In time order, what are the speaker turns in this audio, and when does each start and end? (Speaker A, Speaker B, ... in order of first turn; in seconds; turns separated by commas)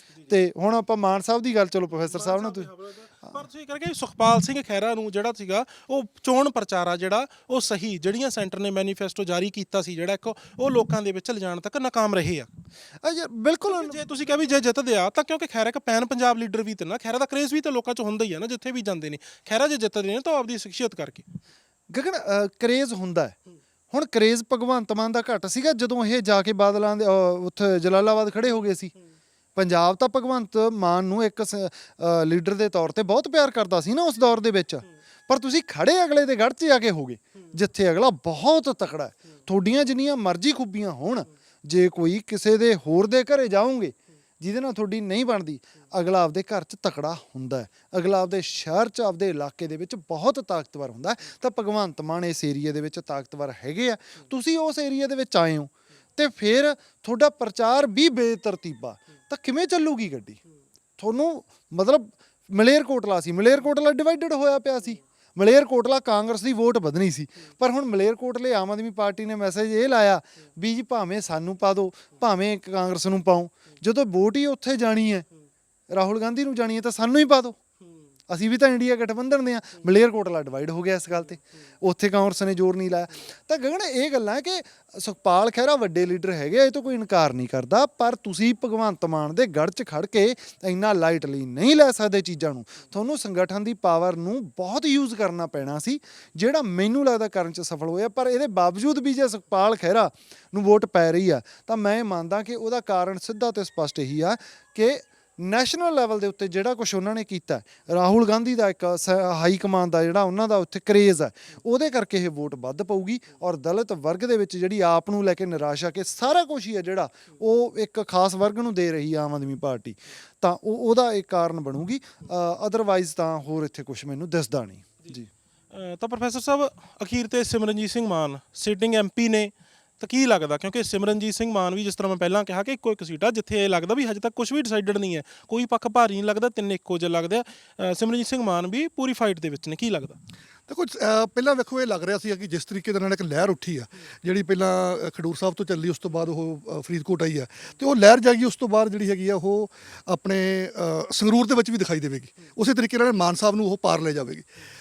Speaker A: 0.3-2.7, Speaker B: 1.9-12.5, Speaker A: 13.0-14.0, Speaker B: 13.7-21.3, Speaker A: 21.9-23.4, Speaker A: 23.9-28.9, Speaker A: 29.6-60.4, Speaker A: 61.0-75.3, Speaker A: 75.9-77.6, Speaker A: 78.3-125.3, Speaker B: 125.7-140.2, Speaker C: 140.7-154.5